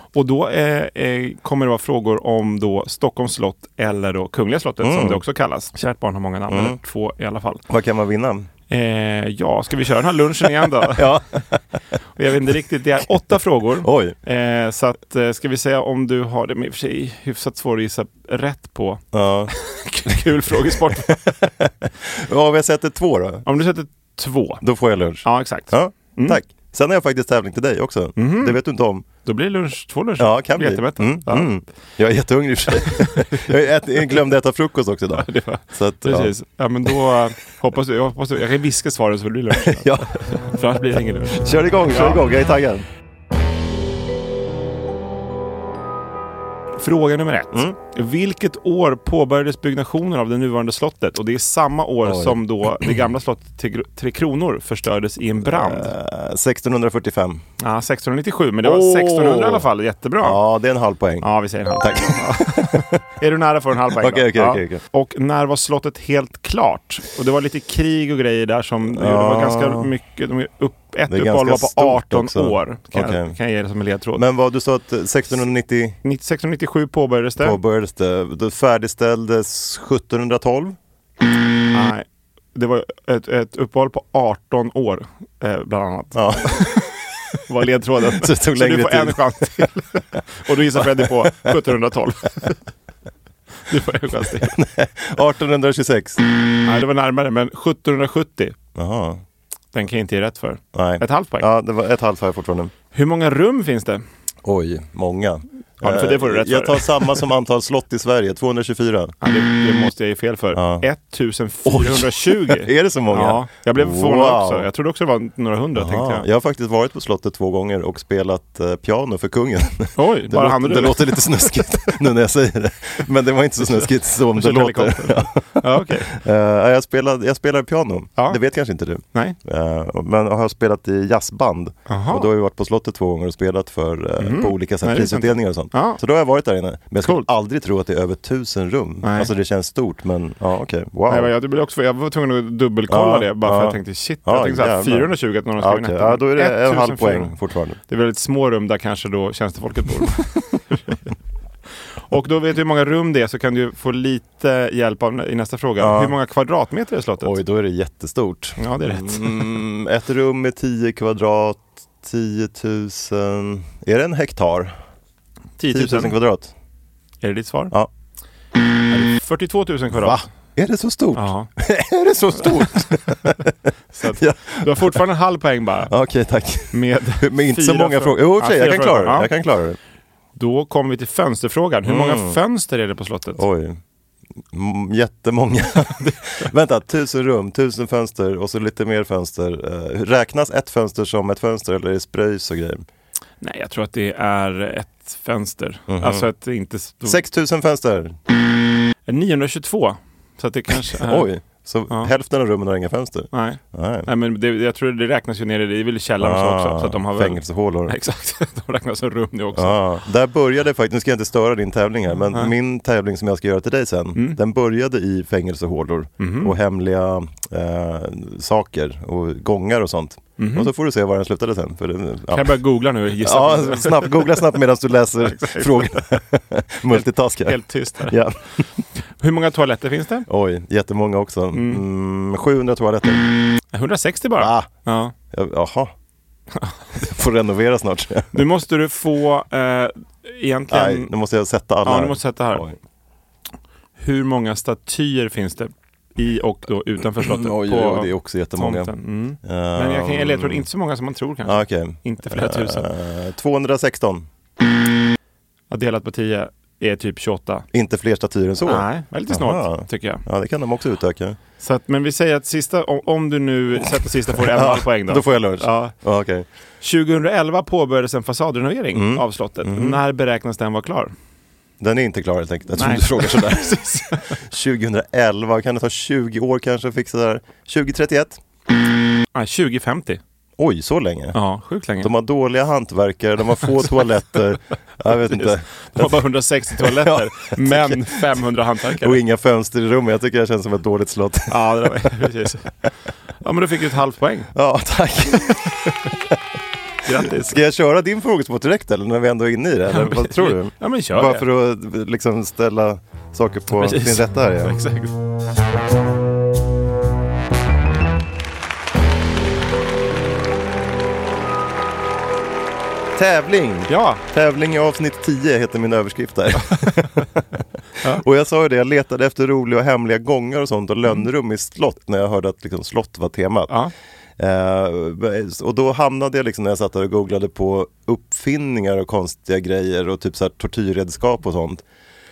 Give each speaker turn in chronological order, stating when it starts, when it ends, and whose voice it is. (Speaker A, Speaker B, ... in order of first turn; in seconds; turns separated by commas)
Speaker A: 0.1-7.6, Speaker B: 4.8-5.2, Speaker B: 6.5-6.8, Speaker B: 7.7-8.5, Speaker A: 8.7-11.1, Speaker B: 10.9-11.8, Speaker A: 12.2-21.2, Speaker B: 13.8-14.2, Speaker B: 19.1-19.6, Speaker B: 20.1-23.5, Speaker A: 23.4-24.6, Speaker B: 24.6-29.1, Speaker A: 25.2-26.4, Speaker A: 28.2-28.6, Speaker A: 29.2-31.5, Speaker B: 30.2-36.3, Speaker A: 32.7-33.5, Speaker A: 35.2-42.2, Speaker B: 39.5-40.1, Speaker B: 41.3-42.9, Speaker A: 46.8-55.9, Speaker B: 52.0-52.9, Speaker B: 55.4-57.4, Speaker A: 57.6-60.4, Speaker B: 58.6-59.7, Speaker B: 60.2-63.0, Speaker A: 61.2-74.2, Speaker B: 64.0-64.8, Speaker B: 68.9-69.9, Speaker B: 71.1-73.4, Speaker B: 74.2-76.0, Speaker A: 76.0-77.6, Speaker B: 77.4-80.8, Speaker A: 81.7-86.9, Speaker B: 86.1-87.0, Speaker A: 87.5-92.6, Speaker B: 88.1-90.2, Speaker B: 90.7-91.7, Speaker A: 93.7-94.6, Speaker B: 94.4-96.2, Speaker A: 96.6-98.6, Speaker B: 98.8-99.2, Speaker A: 99.7-101.5, Speaker B: 100.7-102.7, Speaker A: 102.9-104.0, Speaker B: 104.4-109.2, Speaker A: 105.8-107.2, Speaker A: 109.2-116.3, Speaker B: 110.5-110.8, Speaker B: 111.7-114.7, Speaker B: 115.8-141.3, Speaker A: 120.0-121.5, Speaker A: 123.6-126.1, Speaker A: 131.9-132.3, Speaker A: 134.2-136.0, Speaker A: 137.0-137.3, Speaker A: 139.0-139.3, Speaker A: 141.1-147.3, Speaker B: 142.9-147.8, Speaker A: 147.9-151.0, Speaker A: 152.1-157.3, Speaker B: 155.8-156.2, Speaker B: 157.2-164.8, Speaker A: 158.6-159.5, Speaker A: 165.6-166.2, Speaker B: 165.7-166.5, Speaker A: 167.2-167.7, Speaker A: 168.9-170.2, Speaker B: 169.9-175.0, Speaker A: 171.2-171.5, Speaker A: 172.4-172.7, Speaker A: 173.9-175.9, Speaker B: 175.9-179.8, Speaker A: 176.7-179.3, Speaker A: 180.4-183.4, Speaker B: 181.8-182.4, Speaker B: 183.4-183.8, Speaker B: 184.5-192.8, Speaker A: 186.0-186.5, Speaker A: 193.4-197.2, Speaker B: 195.9-196.3, Speaker B: 197.1-198.2, Speaker A: 199.1-201.3, Speaker B: 201.0-204.1, Speaker A: 203.3-209.8, Speaker B: 206.2-207.9, Speaker B: 209.6-222.6, Speaker A: 216.2-216.5, Speaker A: 220.4-220.7, Speaker A: 222.3-224.4, Speaker B: 223.2-228.7, Speaker A: 225.2-226.0, Speaker A: 226.9-228.2, Speaker A: 229.1-230.3, Speaker B: 230.3-233.4, Speaker A: 231.5-231.8, Speaker A: 233.7-235.1, Speaker B: 234.4-234.7, Speaker B: 235.3-235.9, Speaker B: 237.0-238.4, Speaker A: 238.3-241.1, Speaker B: 240.7-242.8, Speaker A: 241.8-242.7, Speaker A: 244.0-252.9, Speaker B: 247.2-250.7, Speaker B: 251.4-254.3, Speaker A: 255.7-257.7, Speaker B: 257.7-261.4, Speaker A: 258.6-260.2, Speaker A: 261.6-265.9, Speaker B: 264.4-266.5, Speaker A: 266.8-271.1, Speaker B: 268.9-270.0, Speaker B: 271.8-278.4, Speaker A: 272.7-274.4, Speaker A: 279.3-280.2, Speaker B: 280.6-281.4, Speaker A: 281.3-282.1, Speaker B: 282.0-288.4, Speaker A: 285.1-289.2, Speaker B: 288.9-292.1, Speaker A: 291.5-292.7, Speaker A: 293.4-294.5, Speaker B: 294.5-296.4, Speaker A: 297.0-297.6, Speaker B: 297.3-304.8, Speaker A: 299.9-301.5, Speaker A: 303.7-305.1, Speaker B: 313.1-317.3, Speaker A: 313.9-314.2, Speaker A: 316.6-317.2, Speaker B: 318.0-323.8, Speaker B: 324.4-331.8